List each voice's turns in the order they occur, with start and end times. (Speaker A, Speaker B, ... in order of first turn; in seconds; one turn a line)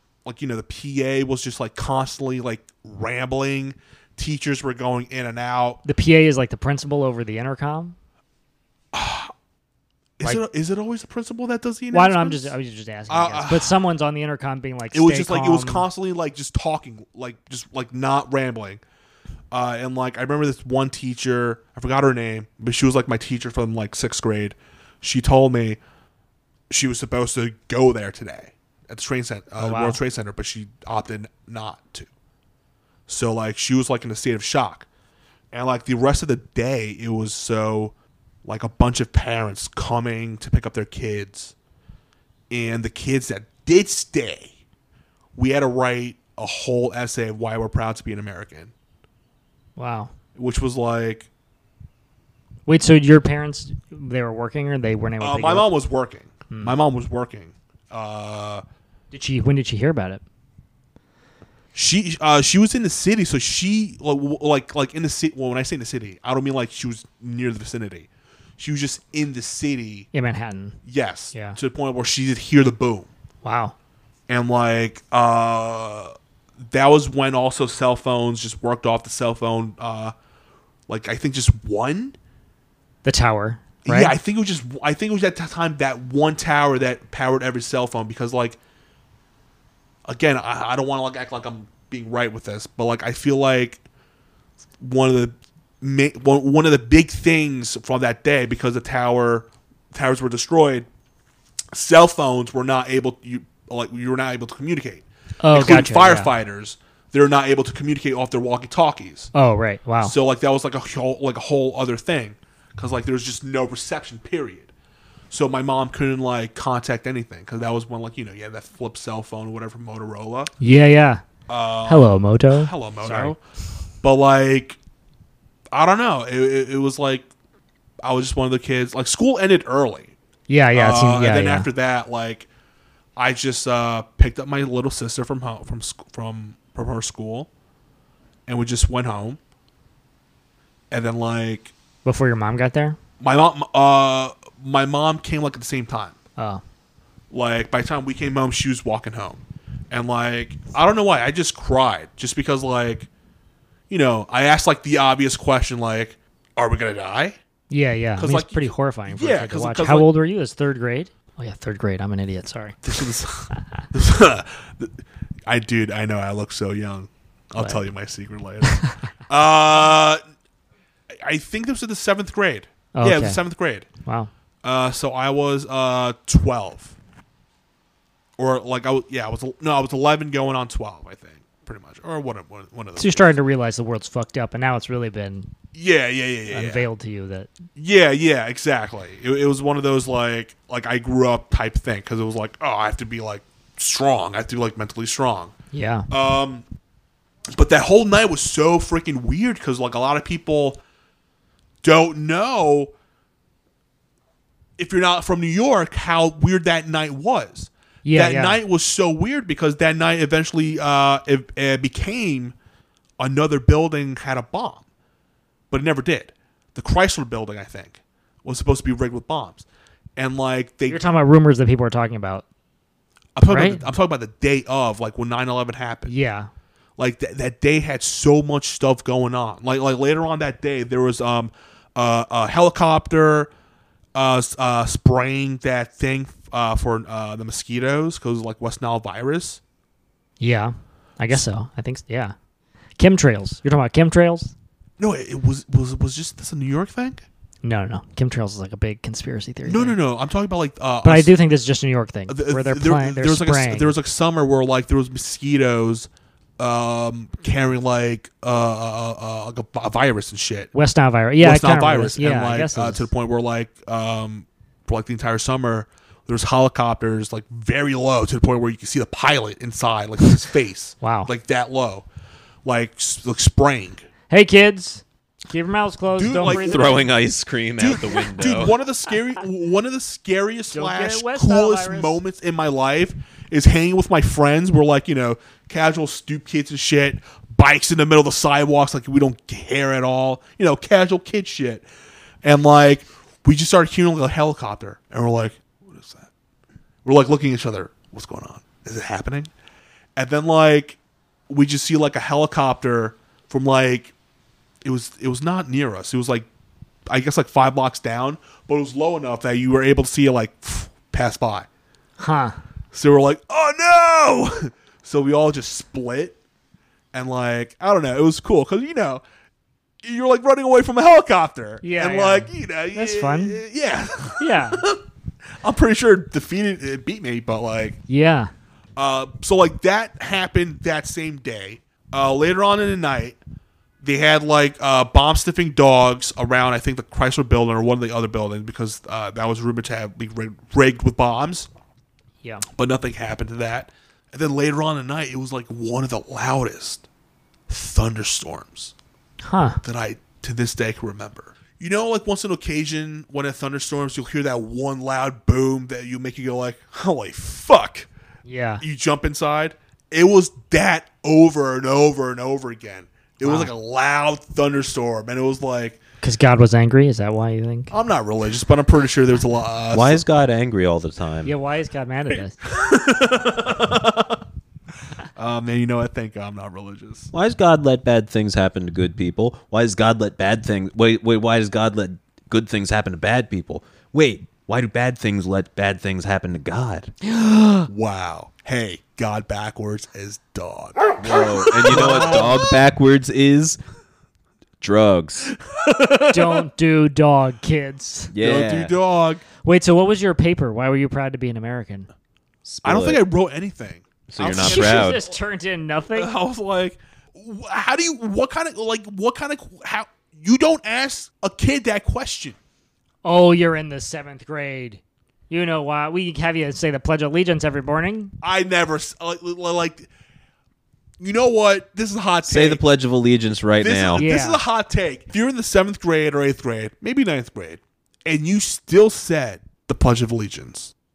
Speaker A: 0.2-5.8
Speaker B: 5.8-7.9
Speaker A: 8.9-9.3
Speaker A: 10.2-12.5
Speaker B: 11.9-15.8
Speaker A: 13.1-13.8
Speaker A: 14.9-18.8
Speaker A: 19.5-25.8
Speaker A: 26.7-32.1
Speaker B: 29.6-30.0
Speaker A: 33.1-34.9
Speaker A: 35.5-37.9
Speaker A: 38.4-41.5
Speaker A: 42.5-44.5
Speaker A: 45.4-48.7
Speaker B: 49.8-50.1
Speaker A: 50.4-51.3
Speaker B: 52.7-55.7
Speaker A: 55.2-58.6
Speaker B: 56.5-56.8
Speaker B: 59.1-60.2
Speaker A: 61.7-70.1
Speaker B: 70.1-70.8
Speaker A: 70.8-73.1
Speaker B: 71.3-71.6
Speaker B: 73.4-73.7
Speaker A: 74.3-80.1
Speaker A: 80.9-82.2
Speaker B: 83.0-84.1
Speaker A: 83.8-88.6
Speaker A: 90.0-93.8
Speaker A: 94.8-100.9
Speaker A: 101.7-109.3
Speaker B: 105.4-106.3
Speaker B: 109.3-110.1
Speaker A: 110.0-114.7
Speaker A: 115.3-120.5
Speaker B: 120.6-121.2
Speaker A: 121.5-123.4
Speaker B: 121.8-123.3
Speaker A: 124.0-124.8
Speaker A: 125.7-127.3
Speaker A: 128.0-130.1
Speaker B: 130.5-131.7
Speaker A: 130.7-132.5
Speaker A: 133.2-137.5
Speaker A: 138.5-139.4
Speaker A: 140.9-141.7
Speaker B: 142.0-143.0
Speaker A: 143.2-146.2
Speaker B: 146.4-146.6
Speaker A: 147.3-153.1
Speaker A: 153.9-157.4
Speaker B: 157.7-162.8
Speaker A: 158.2-160.1
Speaker A: 162.8-170.2
Speaker B: 167.6-167.8
Speaker B: 168.7-169.0
Speaker A: 171.2-173.9
Speaker B: 172.9-173.4
Speaker B: 174.1-174.3
Speaker A: 174.6-176.9
Speaker A: 178.4-183.3
Speaker B: 183.0-185.5
Speaker A: 185.7-186.8
Speaker B: 186.5-187.5
Speaker A: 187.8-195.5
Speaker B: 195.7-196.1
Speaker A: 196.1-196.6
Speaker A: 197.5-200.8
Speaker A: 201.8-202.9
Speaker A: 204.8-212.5
Speaker B: 208.0-208.6
Speaker A: 213.2-214.8
Speaker A: 215.7-219.6
Speaker A: 220.2-221.0
Speaker B: 220.9-222.4
Speaker A: 223.3-226.1
Speaker B: 223.5-223.8
Speaker B: 226.1-226.5
Speaker A: 227.0-233.5
Speaker A: 234.1-239.6
Speaker B: 240.4-242.3
Speaker B: 243.0-244.5
Speaker A: 245.0-247.2
Speaker B: 247.6-249.9
Speaker A: 249.6-251.3
Speaker B: 251.0-253.9
Speaker A: 252.3-260.7
Speaker B: 260.7-263.1
Speaker A: 261.4-272.0
Speaker B: 271.0-271.3
Speaker A: 272.6-274.0
Speaker B: 274.3-277.0
Speaker A: 276.1-277.1
Speaker C: 276.4-278.7
Speaker A: 277.8-291.9
Speaker B: 280.7-282.2
Speaker A: 292.4-296.3
Speaker A: 297.0-299.5
Speaker A: 300.1-301.0
Speaker A: 301.5-304.1
Speaker A: 304.8-306.4
Speaker A: 307.1-311.7
Speaker B: 312.2-312.6
Speaker A: 312.9-316.4
Speaker A: 317.1-319.2
Speaker A: 320.0-325.0
Speaker B: 321.8-323.6
Speaker B: 324.4-324.8
Speaker A: 325.6-328.0
Speaker B: 328.1-328.5
Speaker A: 328.9-333.4
Speaker A: 334.0-341.7
Speaker A: 342.7-347.0
Speaker A: 347.7-348.9
Speaker B: 349.4-349.8
Speaker A: 349.8-358.1
Speaker B: 358.4-358.8
Speaker A: 358.8-366.0
Speaker B: 363.4-363.7
Speaker B: 366.2-367.9
Speaker A: 367.9-370.2
Speaker C: 369.9-371.5
Speaker B: 371.4-372.6
Speaker A: 372.6-374.4
Speaker A: 375.4-377.3
Speaker C: 377.3-387.1
Speaker B: 387.2-387.9
Speaker A: 387.9-392.6
Speaker C: 391.2-393.8
Speaker B: 391.9-392.5
Speaker C: 394.8-395.5
Speaker A: 395.7-396.6
Speaker B: 396.3-398.3
Speaker C: 398.3-398.9
Speaker A: 398.4-399.4
Speaker B: 399.6-402.1
Speaker C: 402.6-403.2
Speaker A: 402.8-405.3
Speaker C: 404.3-405.2
Speaker B: 404.6-406.3
Speaker A: 406.1-412.6
Speaker B: 413.2-418.3
Speaker A: 418.4-420.1
Speaker A: 421.2-422.8
Speaker C: 422.4-424.2
Speaker A: 423.8-430.9
Speaker B: 424.2-424.6